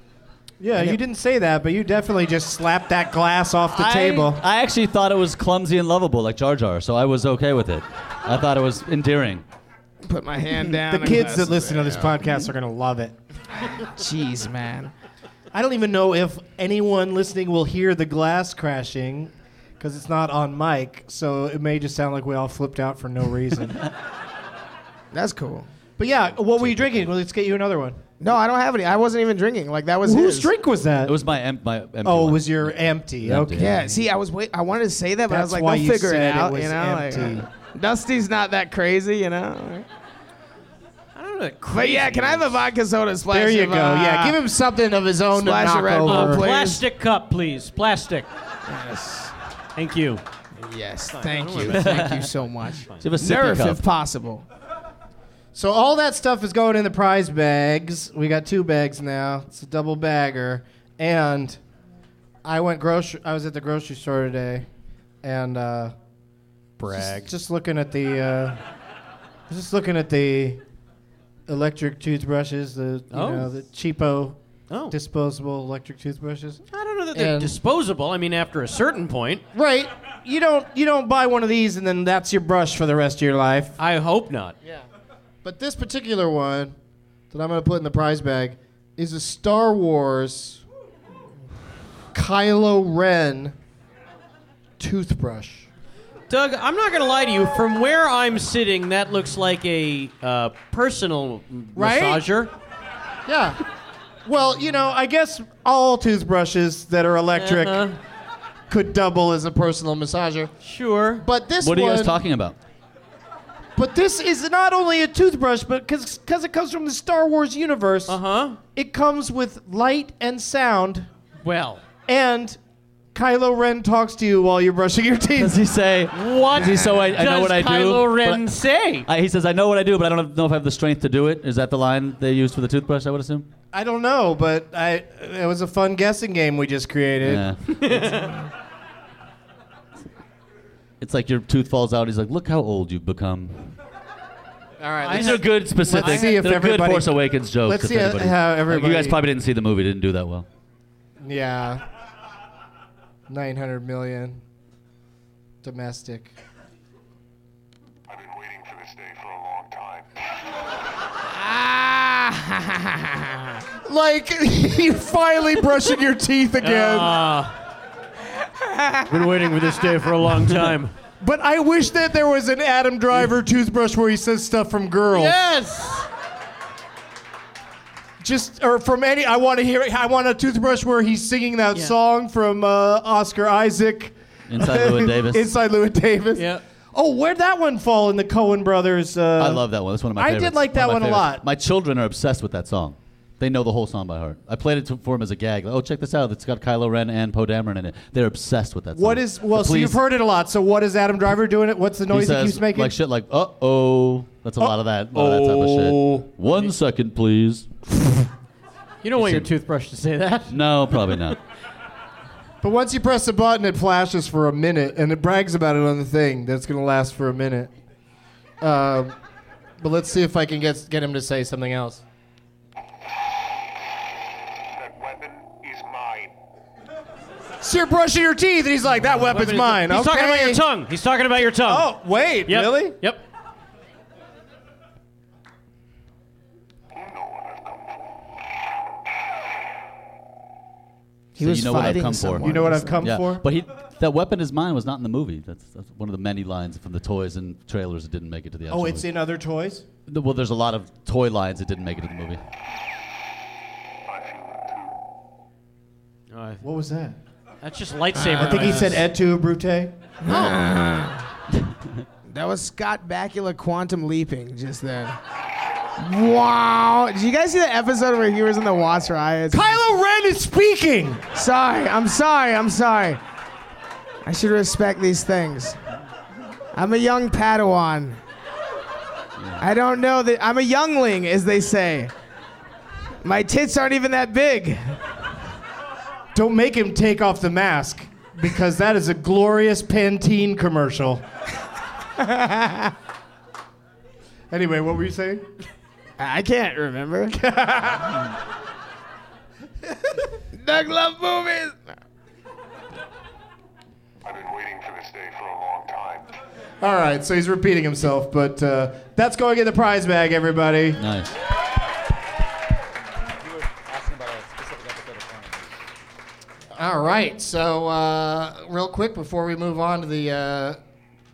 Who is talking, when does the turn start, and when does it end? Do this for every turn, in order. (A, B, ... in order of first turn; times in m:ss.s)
0:00.6-0:04.4 A
0:03.7-0:09.4 B
0:10.0-0:12.2 C
0:10.9-0:13.2 A
0:13.9-0:14.9 C
0:15.5-0:23.9 A
0:25.1-0:25.7 C
0:26.0-0:28.0 A
0:26.6-0:27.1 B
0:28.2-0:30.5 C
0:30.0-0:31.1 A
0:31.1-0:34.0 B
0:32.0-0:33.7 A
0:33.6-0:39.9 C
0:35.3-0:37.5 A
0:41.2-0:42.7 D
0:41.7-0:44.4 C
0:43.3-0:46.4 A
0:45.3-0:46.8 C
0:46.0-0:48.3 D
0:48.7-0:49.3 C
0:49.8-0:50.2 D
0:50.6-0:54.4 C
0:51.1-0:52.2 D
0:51.7-0:52.3 B
0:53.0-0:53.8 B
0:55.6-1:01.6 A
1:02.4-1:04.7 A
1:05.2-1:05.9 A
1:06.8-1:07.3 D
1:06.9-1:08.6 A
1:09.5-1:10.6 A
1:11.5-1:14.4 A
1:13.1-1:13.5 D
1:14.7-1:15.0 D
1:14.9-1:16.6 A
1:16.7-1:19.4 D
1:17.1-1:17.6 A
1:19.5-1:23.8 A
1:23.8-1:24.6 D
1:25.4-1:26.7 A
1:27.3-1:30.6 A
1:32.1-1:33.6 A
1:34.8-1:35.7 A
1:36.3-1:42.5 D
1:41.8-1:42.2 A
1:43.3-1:43.6 A
1:44.2-1:47.9 A
1:47.4-1:48.0 D
1:48.7-1:50.5 A
1:50.6-1:51.2 D
1:51.2-1:52.2 A
1:51.6-1:52.6 B
1:53.8-1:58.2 A
1:58.1-1:58.6 D
1:58.7-2:01.1 A
2:01.4-2:01.8 D
2:02.1-2:02.6 A
2:03.1-2:05.6 A
2:05.4-2:08.5 B
2:06.1-2:09.1 D
2:09.1-2:13.5 B
2:13.7-2:17.5 A
2:17.2-2:17.6 B
2:17.8-2:18.4 D
2:21.0-2:23.8 B
2:24.8-2:29.2 A
2:25.0-2:26.4 D
2:25.1-2:30.5 B
2:31.2-2:31.8 A
2:33.3-2:34.4 A
2:35.6-2:36.3 A
2:38.1-2:40.1 E
2:41.2-2:43.6 C
2:43.8-2:47.2 A
2:46.6-2:47.6 D
2:48.4-2:49.1 C
2:49.1-2:50.9 D
2:51.2-2:55.4 A
2:55.1-2:56.1 D
2:58.2-3:11.4 A
3:04.5-3:05.4 B
3:06.4-3:06.6 D
3:09.4-3:20.0 B
3:19.0-3:22.9 A
3:22.1-3:27.7 B
3:24.6-3:26.3 A
3:29.0-3:31.4 D
3:29.2-3:29.5 B
3:30.5-3:31.4 B
3:32.6-3:37.7 A
3:38.6-3:39.1 A
3:39.8-3:42.0 A
3:44.6-3:46.3 E
3:47.6-3:50.6 A
3:49.2-3:51.9 D
3:51.5-3:53.0 A
3:52.5-3:53.2 D
3:56.9-3:58.2 E
4:01.4-4:03.0 C
4:01.4-4:09.0 B
4:02.4-4:03.4 A
4:08.7-4:09.8 A
4:10.1-4:12.4 B
4:14.0-4:15.0 E
4:16.3-4:16.6 D
4:16.6-4:17.2 A
4:17.6-4:19.1 D
4:18.2-4:18.6 C
4:18.4-4:20.6 A
4:20.2-4:21.2 C
4:22.3-4:25.2 C
4:26.0-4:29.7 C
4:29.5-4:31.2 A
4:31.4-4:33.2 C
4:34.2-4:35.8 C
4:36.7-4:38.2 C
4:39.6-4:42.1 C
4:43.2-4:45.0 C
4:46.4-4:51.2 A
4:52.2-4:52.9 C
4:54.5-4:55.5 A
4:56.2-4:57.4 C
4:57.3-4:58.3 A
5:00.5-5:02.0 C
5:04.2-5:06.3 E
5:06.8-5:11.0 A
5:11.0-5:11.3 B
5:16.8-5:20.8 A